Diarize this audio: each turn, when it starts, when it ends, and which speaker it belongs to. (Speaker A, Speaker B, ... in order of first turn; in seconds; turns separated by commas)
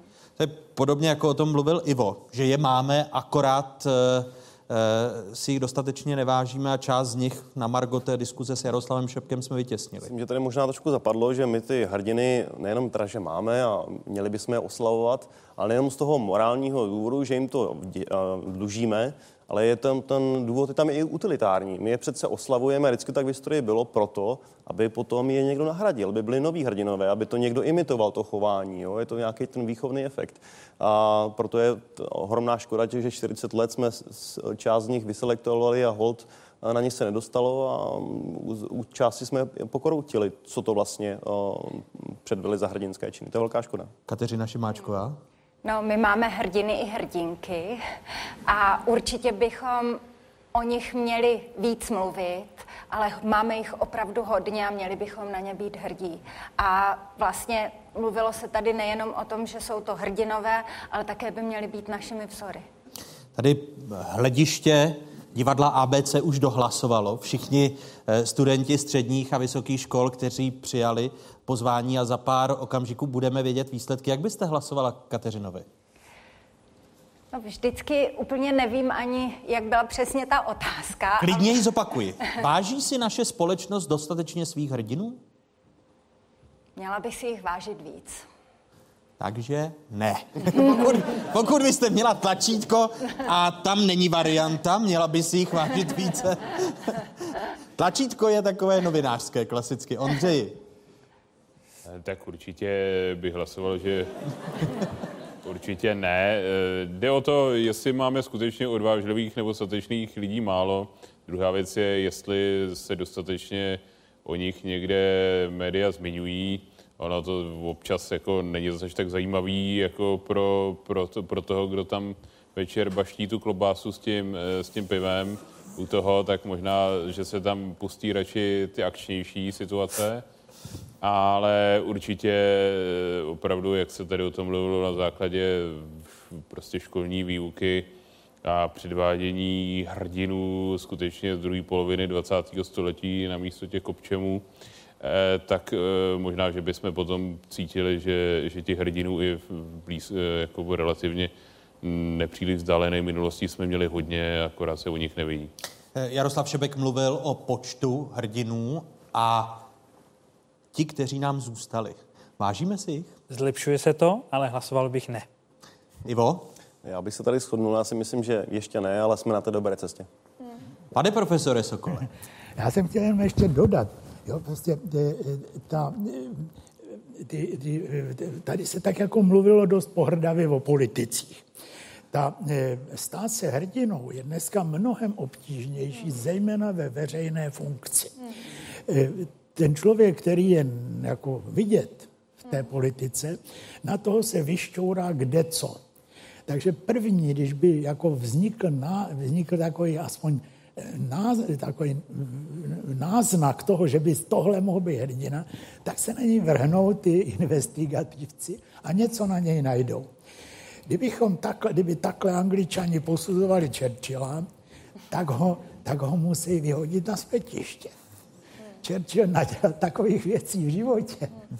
Speaker A: 0.4-10.1, Speaker B: 10.0-43.9, Speaker A: 44.1-45.2, Speaker C: 45.6-47.8, Speaker C: 48.5-50.0, Speaker C: 50.5-62.6, Speaker A: 63.4-75.7, Speaker C: 77.3-81.6, Speaker A: 81.2-85.2, Speaker C: 86.8-88.2, Speaker A: 89.2-97.0, Speaker A: 97.8-100.6, Speaker D: 101.8-104.1, Speaker D: 105.4-130.2, Speaker D: 131.0-137.9, Speaker D: 138.4-144.4, Speaker D: 145.0-155.5, Speaker A: 155.9-159.6, Speaker A: 160.7-163.1, Speaker E: 163.3-165.2, Speaker A: 166.1-166.5, Speaker B: 166.8-170.1, Speaker A: 170.9-172.1, Speaker F: 172.6-176.5, Speaker F: 177.1-181.4, Speaker F: 182.1-188.2, Speaker F: 188.9-195.8, Speaker F: 196.5-210.1, Speaker F: 210.9-214.5, Speaker F: 215.1-217.9, Speaker F: 218.8-221.3